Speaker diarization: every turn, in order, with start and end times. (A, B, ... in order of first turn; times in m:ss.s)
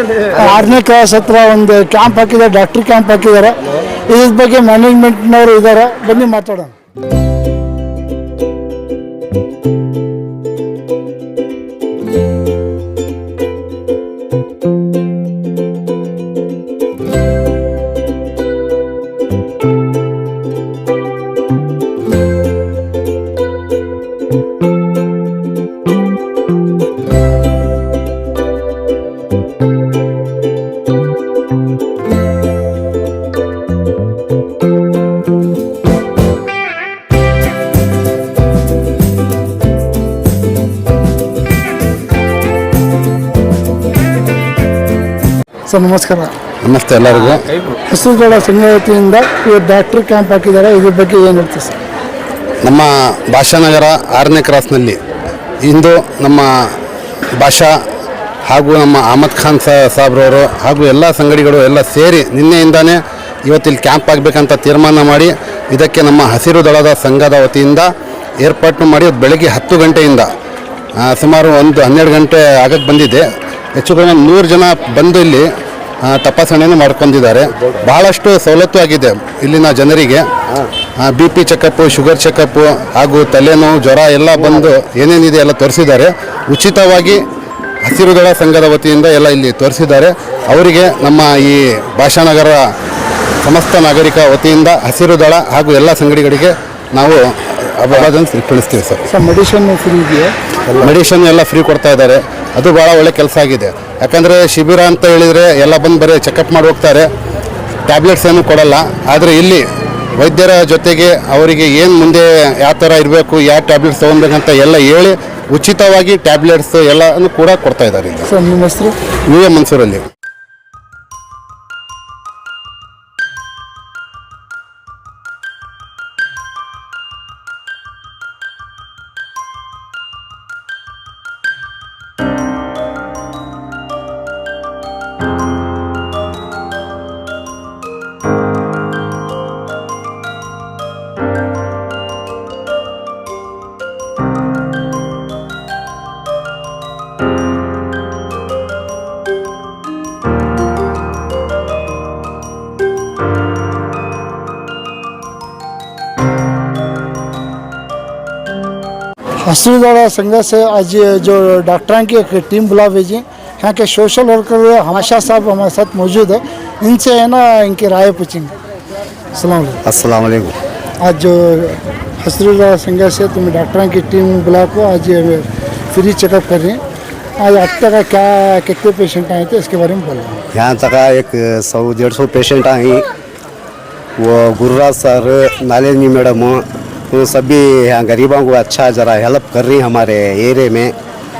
0:00.3-0:03.6 A
0:04.1-0:06.7 A
0:45.7-0:46.3 A
0:46.6-0:47.5 B
0:47.9-0:51.8 A
0:52.6-0:55.0 B
0:55.6-0:56.5 B
0:57.4-0:57.7 B
0:58.5-1:07.9 B
1:08.4-1:10.3 B
1:11.0-1:13.2 B
1:13.8-1:15.5 B
1:16.0-1:20.3 B
1:20.8-1:27.2 B
1:27.8-1:32.6 B
1:33.4-1:39.0 B
1:39.1-1:40.3 A
1:40.7-1:47.1 B
1:47.9-1:49.6 B
1:50.2-1:58.3 B
1:58.3-1:59.0 A
1:59.3-2:00.0 B
2:39.4-2:48.5 A
2:49.4-2:49.8 A
2:49.9-2:50.6 C
2:51.0-2:56.8 A
2:57.4-3:00.4 A
3:00.6-3:03.0 C
3:04.2-3:10.9 C